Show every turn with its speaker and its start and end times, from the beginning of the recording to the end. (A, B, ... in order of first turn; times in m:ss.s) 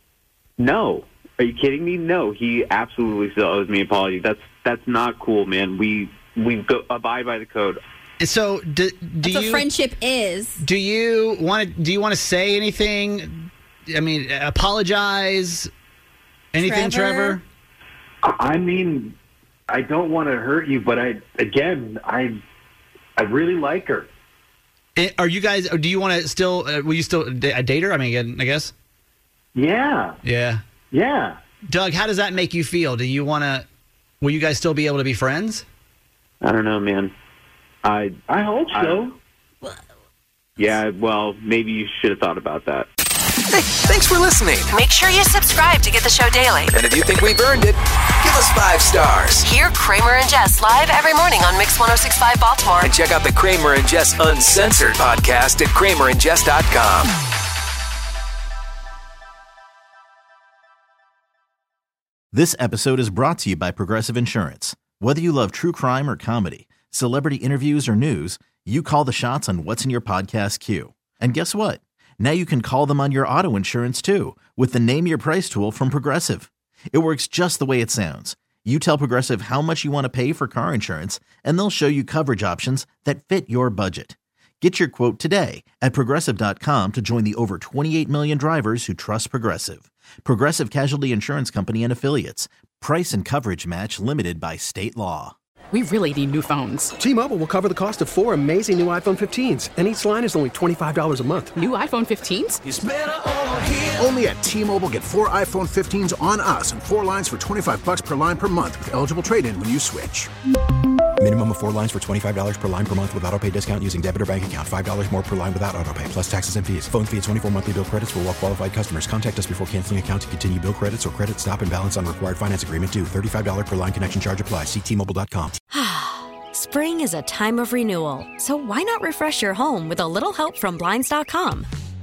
0:00.6-0:07.8 A
0:08.2-0:09.6 B
0:09.2-0:10.6 C
0:10.6-0:15.7 B
0:16.5-0:17.4 B
0:16.6-0:17.4 C
0:18.2-0:19.2 D
0:19.7-0:22.4 D
0:23.2-0:24.1 D
0:25.0-0:28.7 B
0:29.5-0:30.2 D
0:30.2-0:30.6 B
0:30.9-0:31.4 D
0:31.6-0:33.6 B
0:34.2-0:35.6 B
0:36.4-0:37.1 A
0:37.8-0:38.2 A
0:38.3-0:39.2 D
0:40.6-0:42.9 A
0:43.5-0:44.8 E
0:44.7-0:46.7 F
0:46.7-0:49.5 E
0:49.5-0:52.9 F
0:52.8-0:57.1 E
1:02.3-1:35.4 G
1:35.7-1:36.9 H
1:37.0-1:41.6 I
1:41.6-1:42.6 H
1:44.0-1:50.3 J
1:51.2-2:05.5 K
2:05.7-2:11.7 L